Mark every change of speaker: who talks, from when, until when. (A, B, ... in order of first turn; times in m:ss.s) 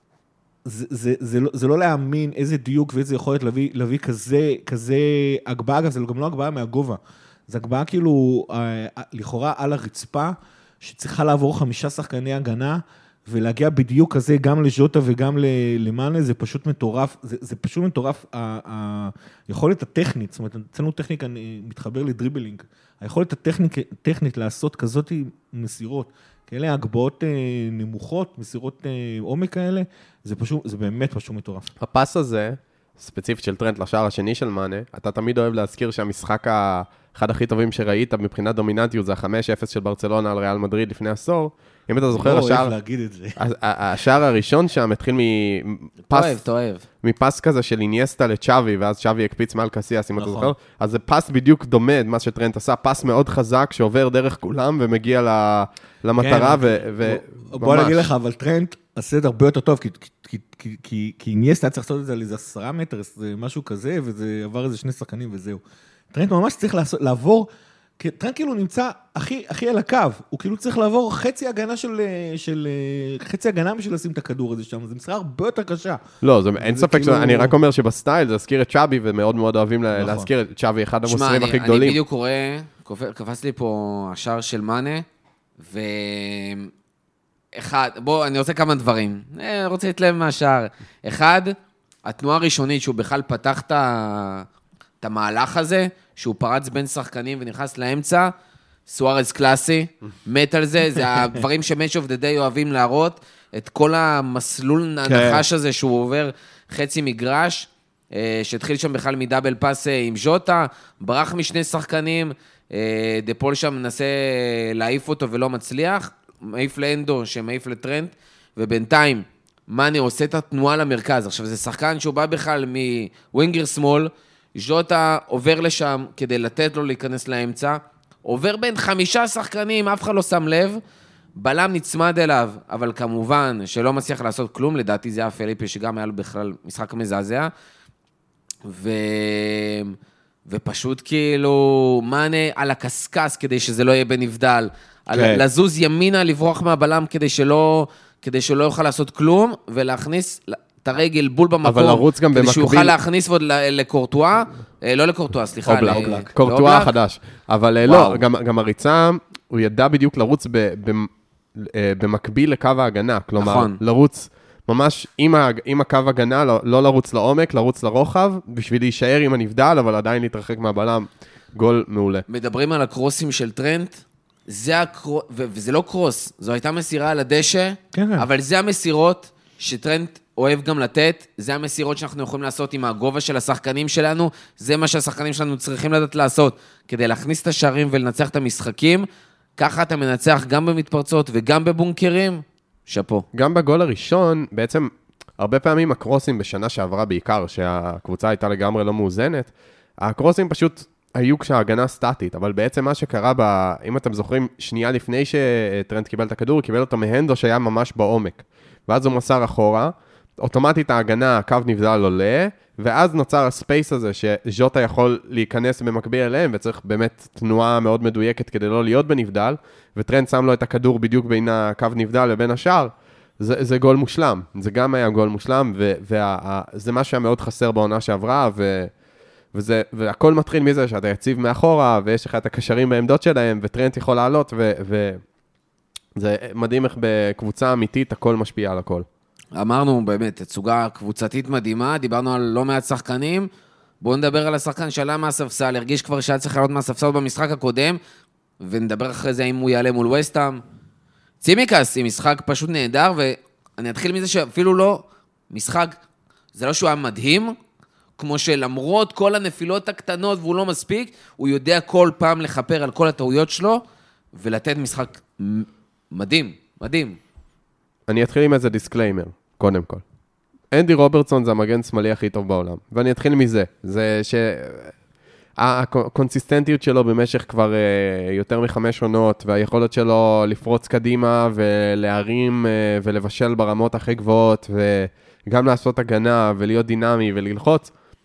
0:00.6-0:31.7 A
0:31.8-0:42.7 B
0:42.1-0:43.4 A
0:43.4-0:46.4 B
0:46.1-0:46.8 C
0:47.0-0:58.1 B
0:50.2-0:50.5 A
0:56.2-1:05.6 A
1:06.1-1:07.5 A
1:08.0-1:16.0 A
1:16.2-1:22.0 B
1:16.6-1:17.5 A
1:19.9-1:20.3 A
1:21.0-1:25.0 C
1:25.6-1:26.7 C
1:27.5-1:31.5 C
1:32.0-1:34.5 C
1:35.0-1:38.3 C
1:38.9-2:10.8 C
1:41.0-1:41.4 A
1:45.0-1:45.4 A
2:11.4-2:17.5 C
2:18.6-2:19.9 C
2:20.5-2:36.9 C
2:25.1-2:25.4 A
2:31.6-2:32.9 B
2:35.7-2:52.2 B
2:36.0-2:36.2 A
2:37.8-2:38.2 C
2:43.4-2:43.8 C
2:52.3-3:09.0 C
2:57.9-2:58.2 A
3:09.6-3:13.2 C
3:13.3-3:48.9 B
3:49.5-3:55.2 B
3:56.2-3:59.0 B
3:59.5-4:03.5 C
4:04.0-4:08.0 C
4:08.6-4:10.6 C
4:11.4-4:16.0 C
4:16.5-4:17.5 C
4:18.2-4:23.8 C
4:24.3-4:27.2 C
4:28.1-4:30.0 B
4:30.7-4:34.9 B
4:35.6-4:47.9 B